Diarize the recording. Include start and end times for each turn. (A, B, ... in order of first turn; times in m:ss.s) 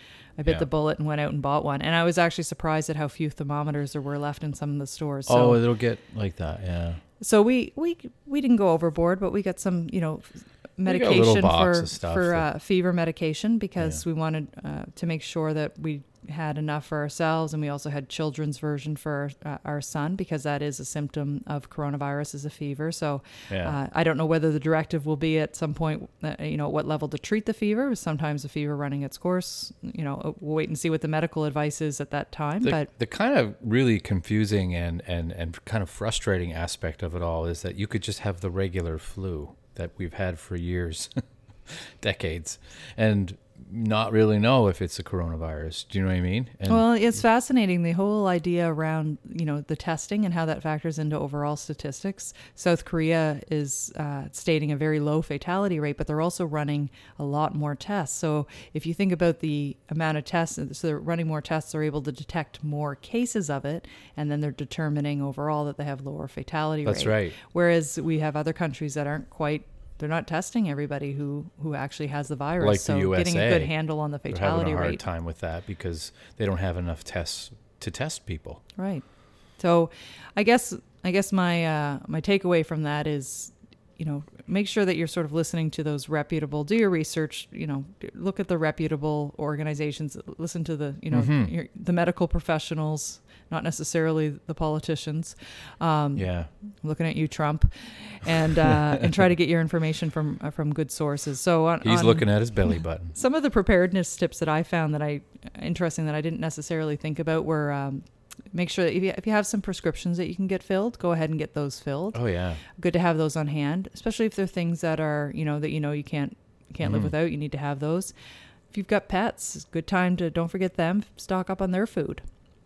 0:00.4-0:05.6 A
0:05.3-0:07.0 B
0:07.2-0:32.9 A
0:10.9-0:12.5 B
0:23.5-0:23.8 B
0:32.6-0:46.9 B
0:46.7-1:15.0 A
1:06.8-1:07.4 B
1:12.6-1:13.8 B
1:14.3-1:18.6 B
1:18.8-1:19.0 A
1:19.6-1:58.1 A
1:31.1-1:31.5 B
1:36.2-1:36.5 B
1:41.8-1:43.1 B
1:52.1-1:52.6 B
1:56.8-1:57.1 B
1:58.7-2:02.2 A